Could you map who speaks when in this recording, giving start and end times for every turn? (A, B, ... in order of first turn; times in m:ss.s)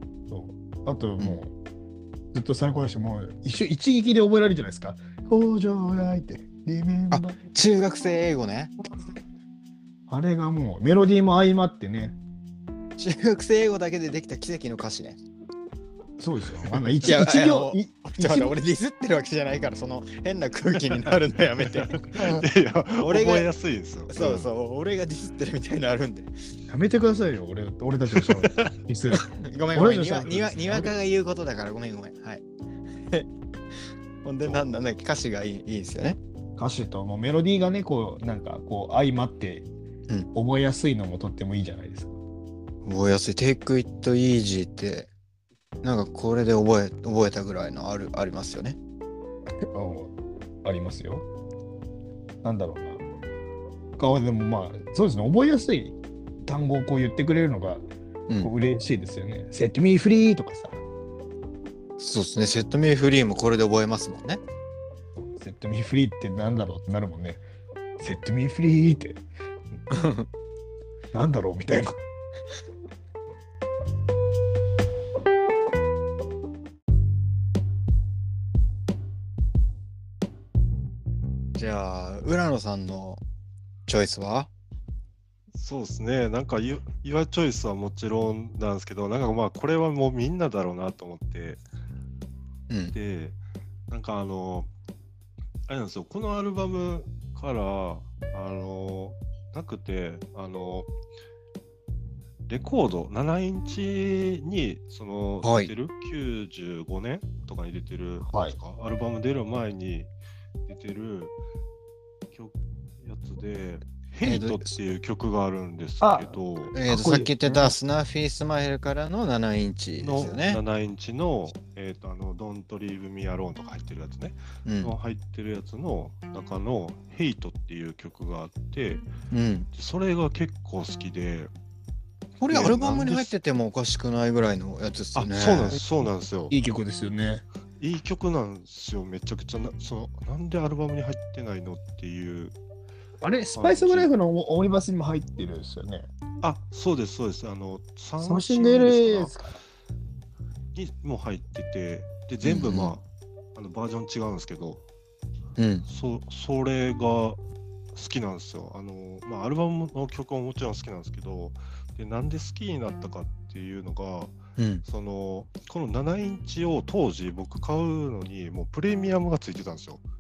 0:00.3-0:01.5 A
0:02.3-0:07.5 A
0:07.1-0:08.9 B
0:10.1-0:12.2 A
0:13.0-0:15.2 B
0:16.2-0:18.6 A
0:17.0-0:22.0 B
0:22.0-0:24.5 C
0:22.1-0:22.5 A
0:23.0-0:23.5 B
0:24.1-0:26.3 B
0:26.7-0:30.9 A
0:28.1-0:28.8 C
0:29.1-0:32.4 B
0:34.2-0:36.2 B
0:36.6-0:39.7 A
0:40.3-0:42.2 A
0:42.8-0:45.1 B
0:45.8-0:48.8 B
0:49.7-0:50.1 A
0:50.6-0:51.3 A
0:52.4-0:53.0 A
0:54.0-0:57.8 A
0:58.4-1:00.8 A
1:02.0-1:04.4 B
1:05.2-1:07.4 A
1:08.0-1:09.2 A
1:09.9-1:10.3 B
1:11.1-1:12.0 A
1:21.6-1:23.2 B
1:23.9-1:24.5 B
1:25.5-1:31.6 C
1:32.7-1:33.0 B
1:32.9-1:33.4 C
1:33.9-1:34.7 C
1:35.7-1:40.9 C
1:42.5-1:50.1 C
1:45.4-1:45.7 B
1:48.3-1:48.6 A
1:50.7-1:51.3 C
1:52.3-1:56.8 C
1:54.2-1:54.8 B
1:56.0-1:57.8 A
1:56.7-2:00.6 B
2:00.0-2:09.1 C
2:04.6-2:04.9 B
2:09.3-2:09.7 B
2:09.7-2:11.5 C
2:12.4-2:15.8 B
2:12.5-2:13.3 C
2:12.7-2:13.1 A
2:15.2-2:16.6 C
2:16.5-2:17.4 A
2:17.8-2:22.6 C
2:23.2-2:26.0 A
2:23.6-2:24.1 C
2:26.4-2:29.4 C
2:28.2-2:29.6 A
2:30.8-2:34.8 C
2:32.4-2:33.0 B
2:35.6-2:35.8 B
2:35.9-2:37.4 C
2:37.9-2:50.0 C
2:44.6-2:44.8 B